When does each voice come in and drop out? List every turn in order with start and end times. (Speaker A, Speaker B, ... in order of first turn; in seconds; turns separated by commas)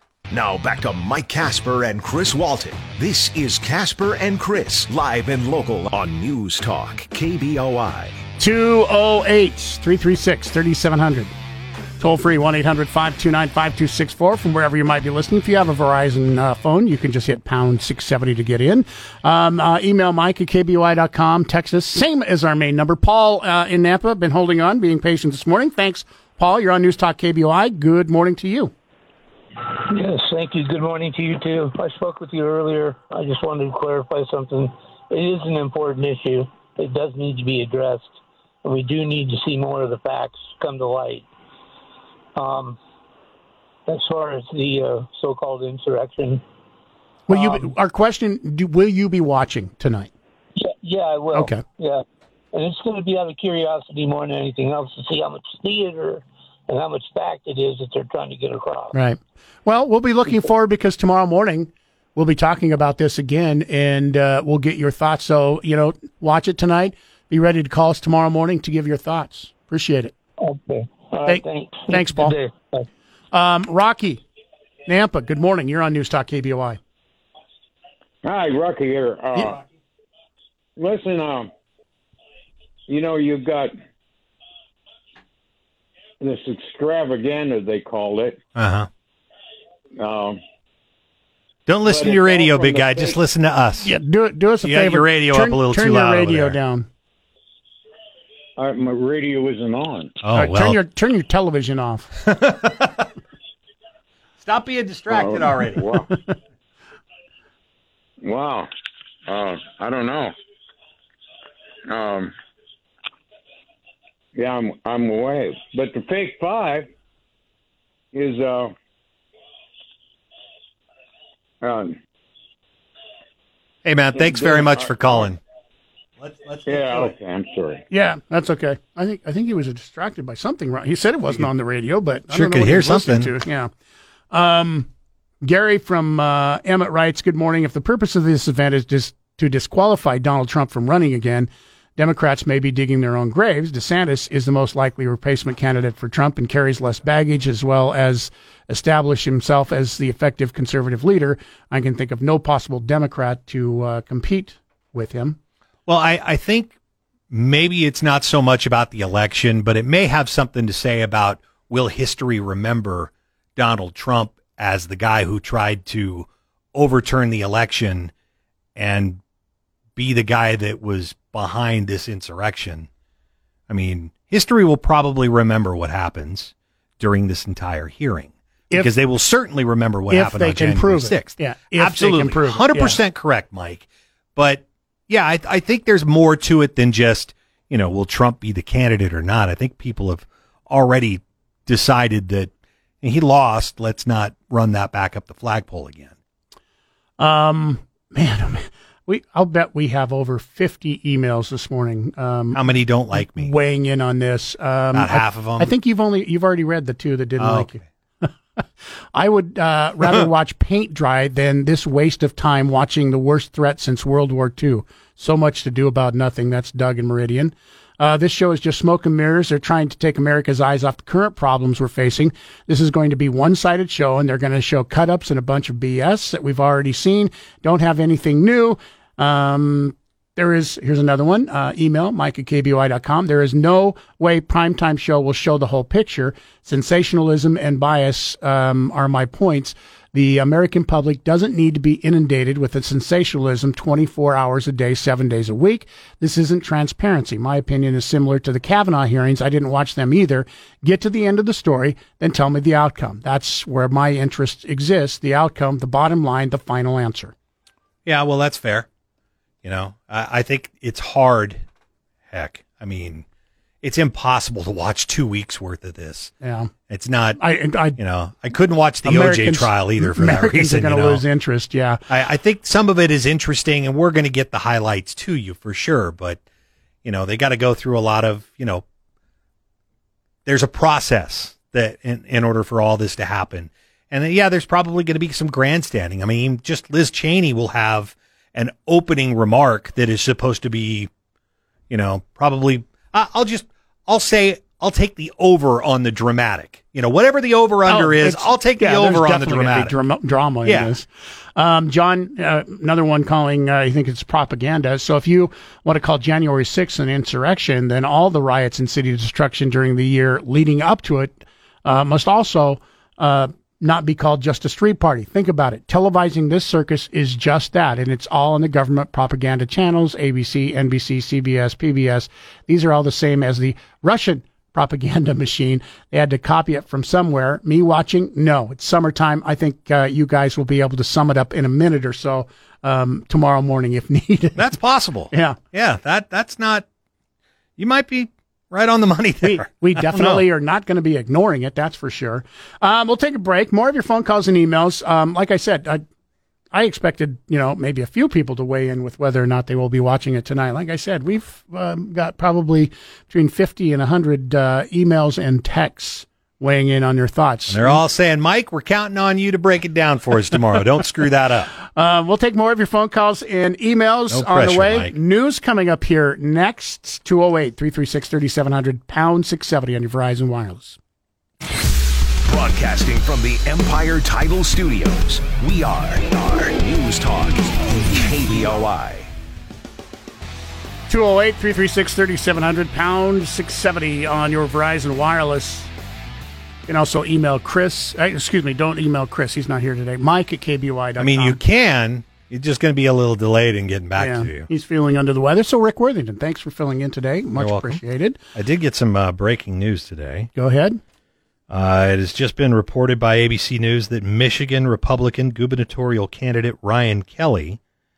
Speaker A: 0.3-8.2, Speaker B: 8.4-11.3, Speaker B: 12.0-28.7, Speaker C: 29.9-41.3, Speaker C: 42.4-42.8, Speaker C: 43.9-46.4, Speaker B: 47.3-50.1, Speaker C: 47.3-47.7, Speaker C: 50.6-59.0, Speaker B: 51.4-51.6, Speaker B: 58.9-70.1, Speaker C: 70.4-72.9, Speaker B: 71.3-72.3, Speaker B: 73.3-74.2, Speaker B: 74.9-76.8, Speaker D: 78.2-79.6, Speaker D: 80.8-81.5, Speaker D: 82.9-83.8, Speaker D: 86.2-88.4, Speaker E: 88.5-88.9, Speaker D: 90.0-90.4, Speaker E: 91.7-93.9, Speaker D: 91.8-93.2, Speaker B: 93.8-96.9, Speaker E: 94.6-96.6, Speaker D: 98.6-100.2, Speaker E: 100.2-100.8, Speaker B: 100.3-102.1, Speaker E: 102.3-102.9, Speaker E: 104.4-105.9, Speaker D: 105.1-106.1, Speaker D: 108.2-108.7, Speaker D: 109.3-110.3, Speaker D: 111.9-112.3, Speaker D: 114.3-116.9, Speaker D: 118.1-118.8, Speaker D: 121.6-122.0, Speaker E: 123.8-125.4, Speaker D: 124.1-125.3, Speaker E: 126.2-127.2, Speaker D: 126.7-127.8, Speaker B: 127.9-133.7, Speaker E: 132.3-133.3, Speaker B: 134.3-134.9, Speaker B: 135.4-155.4, Speaker E: 155.9-156.8, Speaker E: 157.3-168.1, Speaker E: 168.8-169.2, Speaker E: 170.0-172.9, Speaker E: 173.7-196.2, Speaker B: 180.1-183.0, Speaker B: 197.2-202.6, Speaker E: 202.5-203.5, Speaker B: 203.1-208.3, Speaker E: 204.9-205.7, Speaker E: 207.4-207.8, Speaker B: 209.1-257.3, Speaker E: 258.1-258.9, Speaker E: 259.6-261.6, Speaker E: 262.3-263.3, Speaker E: 263.8-266.3, Speaker B: 266.4-266.7, Speaker E: 266.9-267.4, Speaker B: 267.4-268.0, Speaker E: 268.0-271.2, Speaker B: 269.1-272.0, Speaker E: 272.1-276.4, Speaker E: 277.0-278.9, Speaker E: 280.5-291.1, Speaker E: 291.9-299.9, Speaker B: 297.9-334.6, Speaker E: 300.6-300.9, Speaker E: 334.6-336.9, Speaker B: 335.3-335.6, Speaker E: 337.8-340.4, Speaker B: 339.4-346.0, Speaker B: 346.7-358.0, Speaker E: 357.7-361.7, Speaker B: 361.9-371.0, Speaker E: 364.3-365.1, Speaker A: 372.4-379.3, Speaker B: 381.1-385.9, Speaker B: 386.9-391.6, Speaker E: 391.2-394.7, Speaker B: 394.2-398.4, Speaker E: 397.6-398.0, Speaker E: 398.6-400.5, Speaker B: 400.6-401.0, Speaker E: 401.7-407.8